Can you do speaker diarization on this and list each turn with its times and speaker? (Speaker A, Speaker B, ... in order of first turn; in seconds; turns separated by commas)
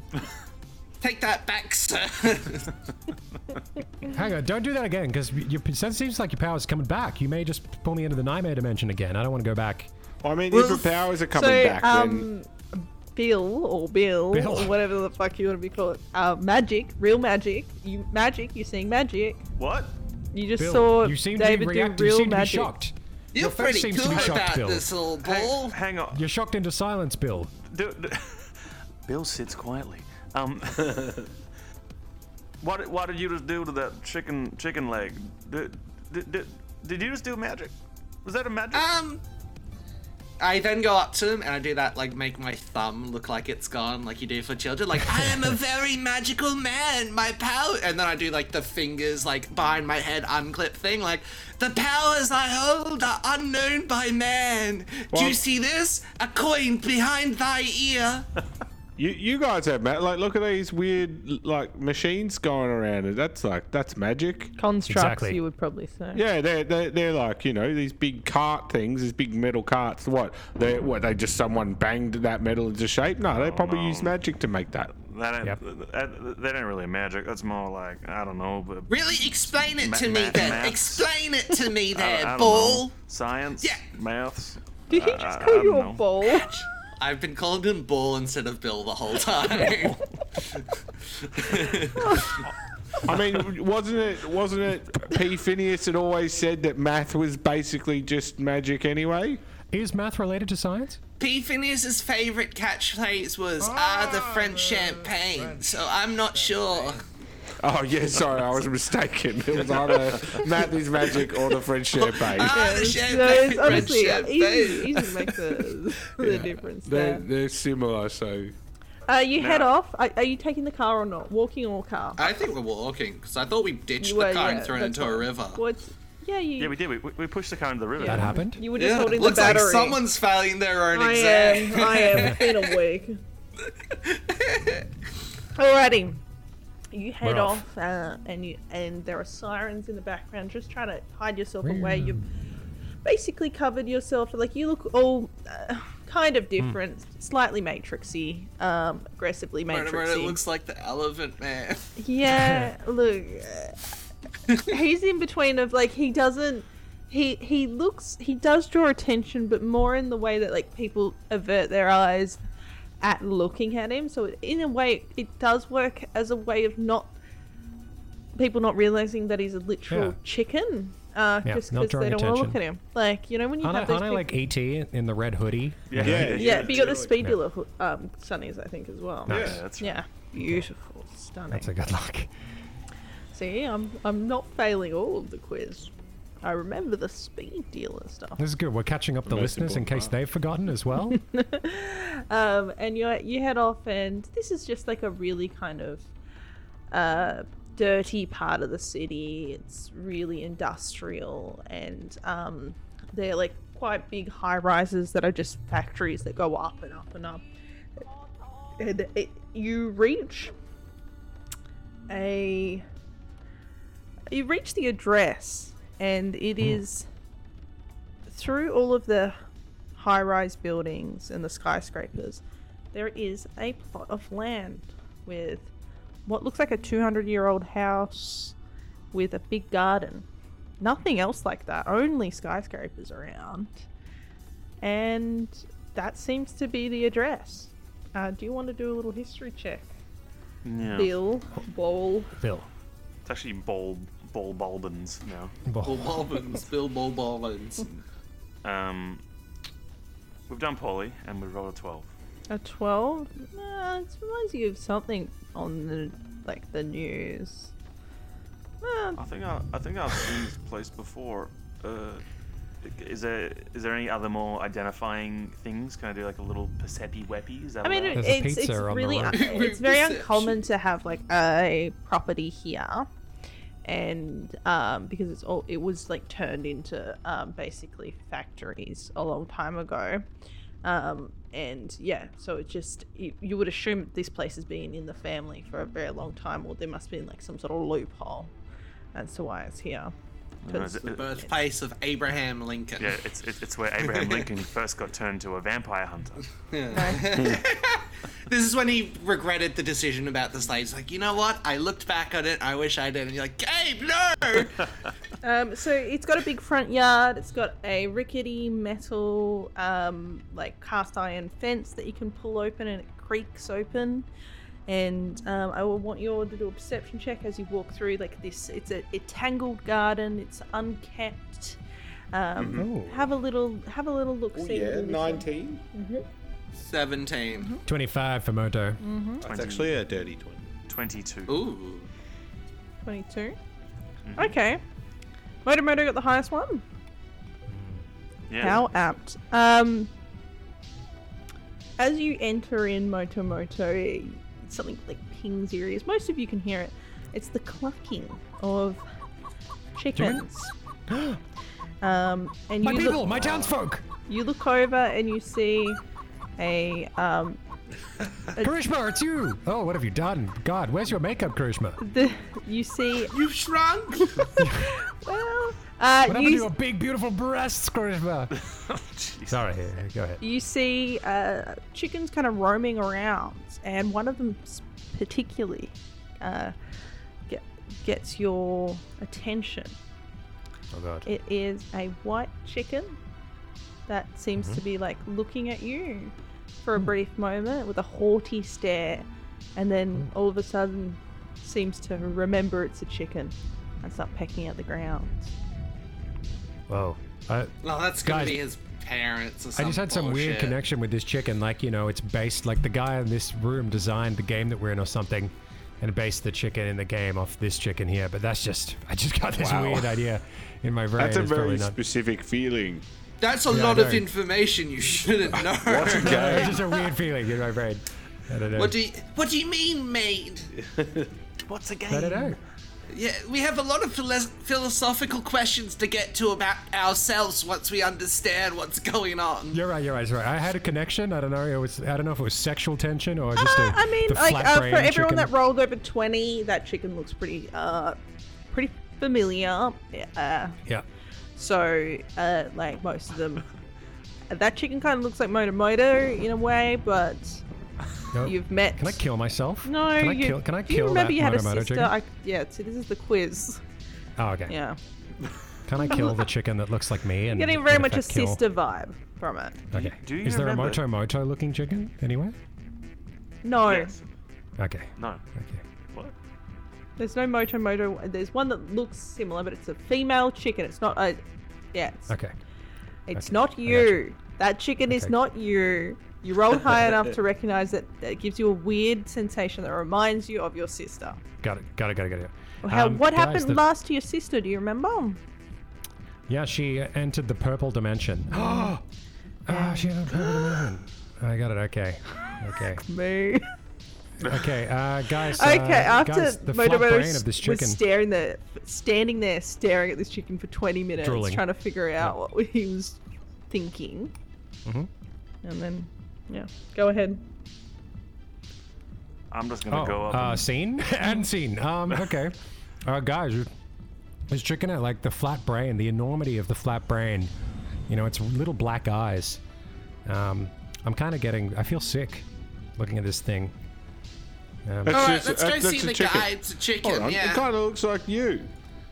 Speaker A: 1.0-2.7, Speaker B: 4.0-9.9, Speaker C: 10.2-12.3, Speaker A: 10.5-10.8, Speaker D: 11.3-19.4, Speaker B: 14.3-14.8, Speaker E: 19.6-19.9, Speaker D: 20.3-22.7, Speaker B: 20.6-24.9, Speaker A: 23.3-25.8, Speaker E: 24.0-24.4, Speaker E: 25.2-26.2, Speaker B: 26.1-27.5, Speaker E: 27.6-28.5, Speaker E: 29.0-31.3, Speaker E: 32.6-37.7, Speaker E: 38.2-38.9, Speaker A: 38.7-39.2, Speaker A: 40.4-58.3, Speaker C: 55.1-55.4, Speaker C: 59.0-64.5, Speaker D: 64.6-66.2, Speaker B: 64.9-65.4, Speaker C: 66.1-74.9, Speaker E: 73.3-74.2, Speaker E: 75.0-81.1, Speaker A: 78.9-82.9, Speaker E: 81.9-86.0, Speaker D: 84.9-86.5, Speaker A: 86.2-90.7, Speaker A: 91.2-92.5, Speaker D: 91.9-92.5, Speaker C: 93.0-99.4, Speaker B: 99.7-101.0, Speaker A: 101.2-107.0, Speaker C: 103.8-104.8, Speaker C: 107.6-112.7, Speaker E: 110.1-110.4, Speaker A: 111.9-115.1, Speaker D: 112.4-117.2, Speaker C: 116.2-118.5, Speaker D: 119.1-122.3, Speaker E: 119.4-119.7, Speaker A: 122.2-125.6, Speaker D: 124.0-126.8, Speaker E: 126.6-128.4, Speaker D: 128.0-130.0, Speaker B: 128.0-128.7, Speaker A: 128.8-132.7, Speaker D: 130.9-133.2, Speaker A: 133.9-134.8, Speaker D: 135.5-136.2, Speaker D: 136.9-142.2, Speaker B: 137.2-137.6, Speaker B: 141.6-142.2, Speaker D: 143.0-150.4, Speaker A: 149.7-151.9, Speaker D: 152.0-153.8, Speaker B: 152.3-152.7, Speaker D: 154.6-162.4, Speaker D: 163.0-167.1, Speaker D: 168.3-174.4, Speaker B: 169.9-170.2, Speaker B: 171.4-172.6, Speaker B: 173.6-176.6, Speaker E: 175.9-177.1, Speaker C: 176.0-177.0, Speaker D: 176.3-181.7, Speaker B: 177.1-177.4, Speaker B: 179.3-179.6, Speaker C: 179.3-179.6, Speaker E: 179.3-180.0, Speaker B: 180.4-180.7, Speaker B: 181.5-182.3, Speaker D: 183.3-188.4, Speaker B: 188.4-191.2, Speaker C: 189.2-190.1, Speaker D: 191.0-196.1, Speaker D: 196.9-207.4, Speaker D: 208.8-210.5, Speaker D: 212.1-212.8, Speaker D: 214.3-217.1, Speaker D: 218.3-219.4, Speaker D: 220.0-222.4, Speaker D: 222.9-225.7, Speaker D: 226.2-228.5, Speaker D: 229.1-230.2, Speaker D: 230.8-233.8, Speaker D: 234.8-239.9, Speaker E: 240.6-241.1, Speaker D: 240.9-242.3, Speaker B: 242.4-242.7, Speaker E: 243.2-245.5, Speaker B: 245.7-246.3, Speaker A: 245.8-247.9, Speaker E: 248.6-249.2, Speaker E: 250.5-252.1, Speaker D: 252.5-257.7, Speaker D: 258.8-259.2, Speaker E: 259.2-262.2, Speaker E: 262.8-268.2, Speaker D: 267.8-273.1, Speaker B: 268.1-269.4, Speaker A: 269.3-270.6, Speaker D: 273.8-280.2, Speaker D: 280.8-288.5, Speaker D: 289.1-290.1, Speaker E: 290.6-291.3, Speaker D: 290.7-291.5, Speaker A: 291.0-293.1, Speaker E: 293.0-296.5, Speaker A: 294.0-294.5, Speaker A: 296.7-304.9, Speaker D: 296.9-297.4, Speaker D: 305.4-314.3, Speaker D: 314.9-321.8, Speaker D: 322.3-326.2, Speaker C: 322.6-322.9, Speaker B: 322.7-323.3, Speaker C: 324.5-325.8, Speaker A: 326.7-327.8, Speaker B: 327.9-329.0, Speaker D: 329.0-329.4, Speaker C: 329.4-330.6, Speaker E: 329.4-329.9, Speaker E: 330.9-331.6, Speaker A: 331.5-332.1, Speaker D: 333.0-333.6, Speaker E: 334.2-334.5, Speaker D: 334.4-334.8, Speaker D: 335.6-336.8, Speaker B: 337.7-338.0, Speaker E: 338.5-338.8, Speaker D: 338.6-340.1, Speaker D: 342.0-349.0, Speaker D: 349.9-350.7, Speaker B: 350.1-350.4, Speaker B: 351.1-351.4, Speaker D: 352.0-353.4, Speaker B: 352.8-354.0, Speaker D: 354.3-356.0, Speaker D: 356.6-357.6, Speaker B: 358.6-362.0, Speaker D: 362.0-363.3, Speaker A: 363.3-364.5, Speaker D: 364.2-366.7, Speaker B: 364.6-364.9, Speaker B: 366.3-368.6, Speaker E: 368.6-369.6, Speaker B: 369.5-370.4, Speaker D: 370.4-376.7, Speaker D: 377.5-379.9, Speaker B: 380.9-381.3, Speaker D: 381.2-383.2, Speaker D: 384.1-395.5, Speaker B: 396.9-398.6, Speaker A: 397.8-400.8, Speaker B: 399.8-411.9, Speaker C: 409.5-410.2, Speaker C: 411.2-413.0, Speaker A: 413.4-416.9, Speaker B: 413.7-414.2, Speaker C: 415.5-416.8, Speaker B: 416.0-419.0, Speaker A: 418.7-420.7, Speaker C: 420.8-421.3, Speaker A: 421.7-422.5, Speaker B: 422.1-422.6, Speaker A: 423.1-429.8, Speaker B: 429.7-435.5, Speaker D: 433.6-438.2, Speaker D: 438.7-440.8, Speaker D: 441.6-443.6, Speaker D: 444.5-447.6, Speaker B: 448.3-452.1, Speaker D: 448.4-449.2, Speaker D: 449.8-453.8, Speaker B: 454.4-454.7, Speaker D: 454.7-455.0, Speaker B: 455.9-458.6, Speaker D: 456.0-456.5, Speaker D: 457.5-459.8, Speaker B: 459.9-462.6, Speaker E: 459.9-461.0, Speaker D: 463.6-464.1, Speaker E: 463.8-464.2, Speaker B: 464.8-465.8, Speaker E: 465.2-465.4, Speaker D: 467.2-471.4, Speaker D: 471.9-472.3, Speaker B: 472.3-472.5, Speaker D: 473.3-481.4, Speaker B: 473.4-474.2, Speaker B: 481.6-483.8, Speaker D: 482.8-485.4, Speaker B: 486.5-489.0, Speaker D: 488.6-488.9, Speaker B: 489.6-493.0, Speaker D: 489.7-490.9, Speaker D: 493.0-493.7, Speaker B: 494.4-498.0, Speaker D: 495.5-504.3, Speaker B: 501.2-501.6, Speaker D: 505.6-507.4, Speaker E: 509.5-510.7, Speaker B: 509.9-513.7, Speaker B: 514.5-517.5, Speaker B: 518.1-519.6, Speaker B: 520.2-522.4, Speaker B: 523.0-523.7, Speaker B: 524.9-525.3, Speaker C: 525.0-528.7, Speaker A: 525.1-527.6